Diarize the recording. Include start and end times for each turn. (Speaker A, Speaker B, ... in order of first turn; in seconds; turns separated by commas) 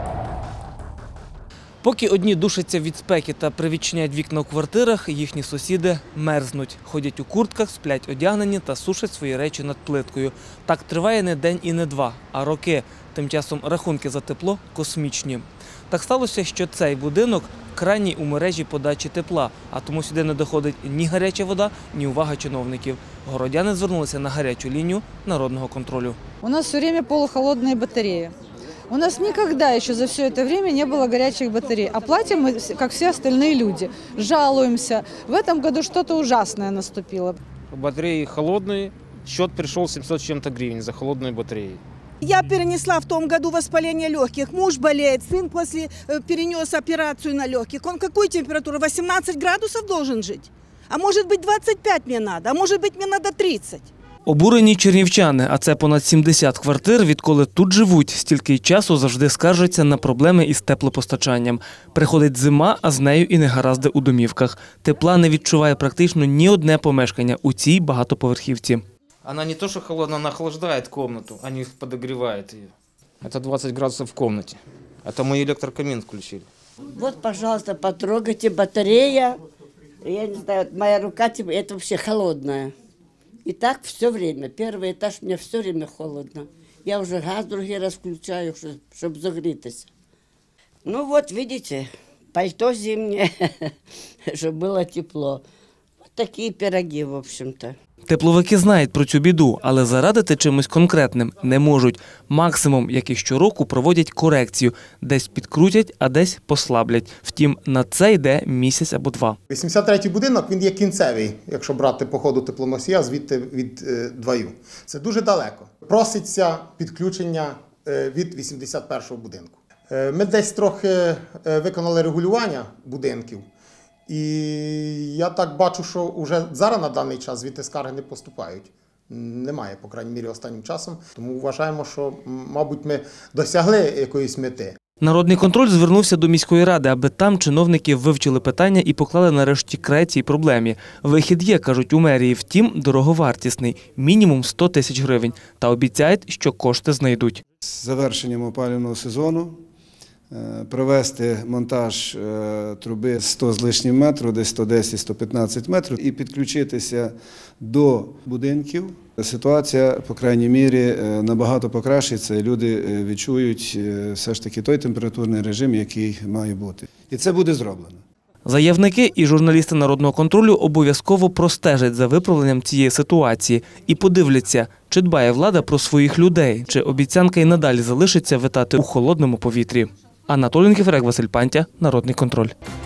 Speaker A: 1.8-26.2, Speaker B: 26.4-28.3, Speaker B: 28.9-37.4, Speaker C: 37.7-41.8, Speaker D: 42.2-53.9, Speaker A: 54.2-68.8, Speaker C: 69.2-72.7, Speaker C: 73.2-76.5, Speaker E: 77.0-79.4, Speaker E: 80.0-82.7, Speaker E: 83.5-89.9, Speaker E: 90.9-93.2, Speaker E: 94.4-95.4, Speaker E: 96.0-97.7, Speaker A: 98.1-109.4, Speaker F: 109.5-123.5, Speaker F: 124.1-134.8, Speaker A: 135.0-147.4, Speaker G: 147.6-149.6, Speaker G: 150.3-168.0, Speaker A: 168.4-182.5